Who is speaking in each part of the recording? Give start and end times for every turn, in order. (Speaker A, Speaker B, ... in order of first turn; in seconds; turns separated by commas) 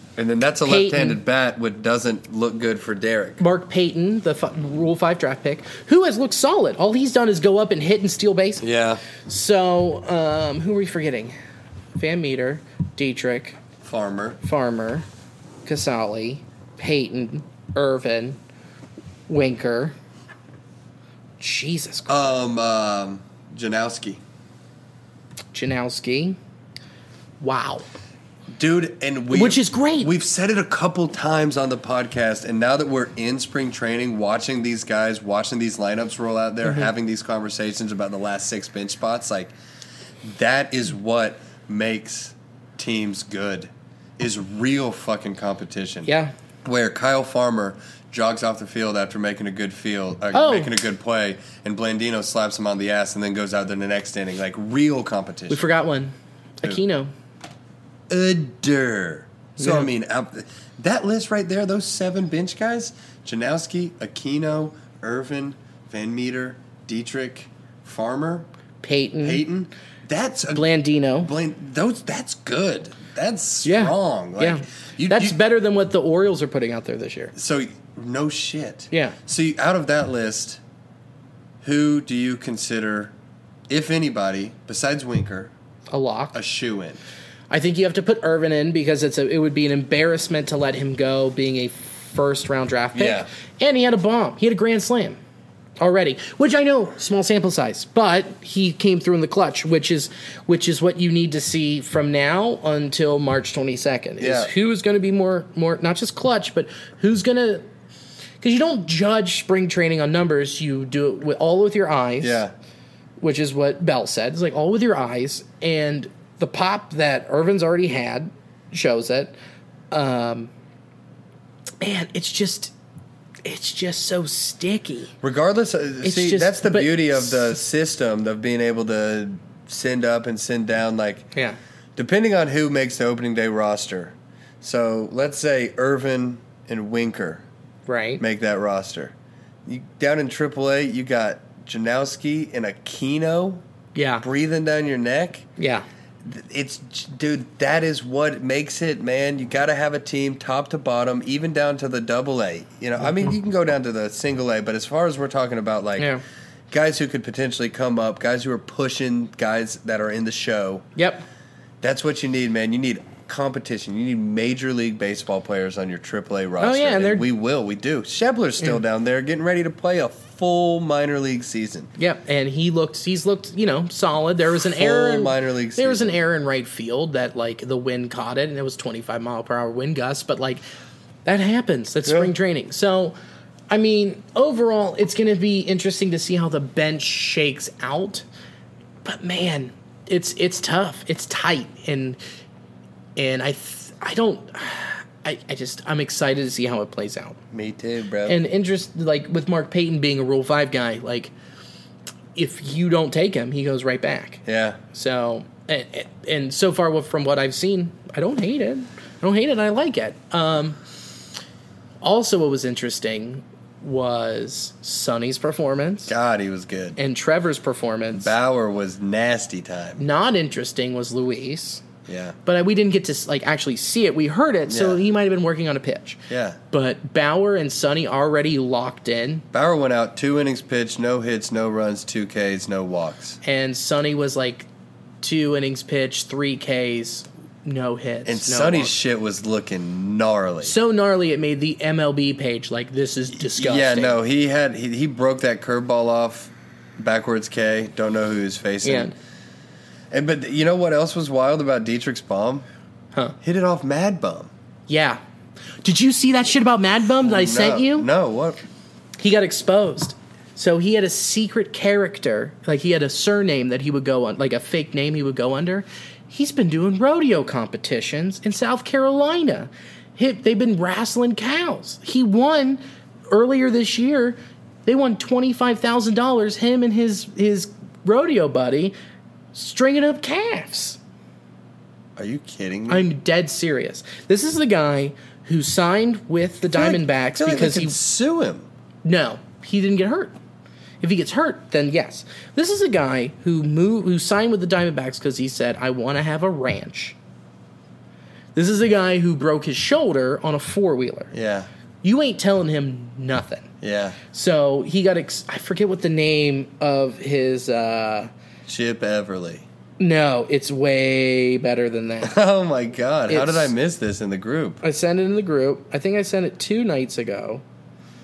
Speaker A: 0.2-3.4, Speaker B: 0.7-1.2, Speaker B: 3.4-8.7, Speaker A: 8.6-9.0, Speaker B: 9.3-11.3, Speaker B: 12.0-13.6, Speaker A: 13.8-14.4, Speaker B: 14.4-15.1, Speaker B: 15.7-18.4, Speaker B: 19.3-19.9, Speaker B: 21.4-22.2, Speaker A: 22.1-24.2, Speaker B: 25.5-26.4, Speaker B: 27.4-27.9, Speaker A: 28.5-39.5, Speaker B: 29.3-30.1, Speaker B: 36.6-36.9, Speaker A: 40.2-46.1, Speaker B: 46.0-46.3, Speaker A: 46.6-55.7, Speaker B: 50.3-50.7, Speaker B: 55.5-57.1, Speaker A: 58.1-68.5, Speaker B: 59.6-59.9, Speaker B: 68.8-69.5, Speaker A: 69.2-75.4, Speaker B: 70.5-71.3, Speaker B: 73.6-77.3, Speaker A: 77.3-80.6, Speaker B: 78.9-79.2, Speaker A: 81.6-83.1, Speaker A: 83.7-85.5, Speaker B: 85.9-86.3, Speaker A: 86.3-87.0, Speaker B: 87.5-95.2, Speaker A: 93.0-93.3, Speaker B: 95.8-107.7, Speaker A: 104.2-104.5, Speaker B: 108.4-112.4, Speaker A: 112.2-112.5, Speaker B: 113.2-119.4, Speaker B: 119.9-120.5, Speaker B: 121.8-122.7, Speaker B: 123.5-125.1, Speaker A: 125.2-131.3, Speaker B: 126.0-127.5, Speaker A: 132.0-137.4, Speaker B: 137.9-138.2, Speaker A: 138.2-139.1, Speaker A: 139.7-143.6, Speaker B: 143.9-144.3, Speaker A: 144.2-145.5, Speaker B: 145.6-145.8, Speaker A: 146.2-156.1, Speaker A: 156.7-160.9, Speaker B: 161.0-161.2, Speaker A: 161.8-171.9, Speaker B: 166.6-167.3, Speaker B: 172.0-180.6, Speaker A: 174.5-176.2, Speaker B: 181.2-183.2, Speaker A: 182.0-182.3, Speaker B: 183.7-188.2, Speaker B: 189.0-192.2, Speaker B: 193.2-197.4, Speaker A: 197.5-198.4, Speaker B: 198.3-201.3, Speaker B: 202.3-210.8, Speaker A: 204.4-204.8, Speaker B: 212.0-216.1, Speaker A: 216.1-217.0, Speaker B: 217.0-218.3, Speaker A: 218.1-220.0, Speaker B: 220.0-221.8, Speaker A: 222.1-222.4, Speaker B: 222.4-229.4, Speaker A: 224.7-225.0, Speaker A: 226.3-226.6, Speaker A: 229.5-233.4, Speaker B: 233.4-234.7, Speaker B: 235.2-238.9, Speaker A: 238.2-240.8, Speaker B: 240.6-244.2, Speaker A: 243.3-249.2, Speaker B: 248.8-249.1, Speaker A: 250.1-252.7, Speaker A: 253.4-254.5, Speaker B: 254.9-255.2, Speaker B: 255.8-258.1, Speaker A: 257.2-258.6, Speaker B: 259.2-278.9, Speaker B: 279.5-281.0, Speaker A: 282.2-283.1, Speaker B: 282.9-288.0, Speaker A: 286.7-288.7, Speaker B: 289.1-290.4, Speaker B: 291.0-297.2, Speaker B: 298.6-301.3, Speaker A: 301.3-301.7, Speaker B: 302.0-303.7, Speaker A: 303.8-304.2, Speaker B: 304.3-308.3, Speaker A: 308.7-309.6, Speaker B: 310.0-312.4, Speaker A: 312.2-314.8, Speaker B: 313.3-313.7, Speaker B: 314.8-317.6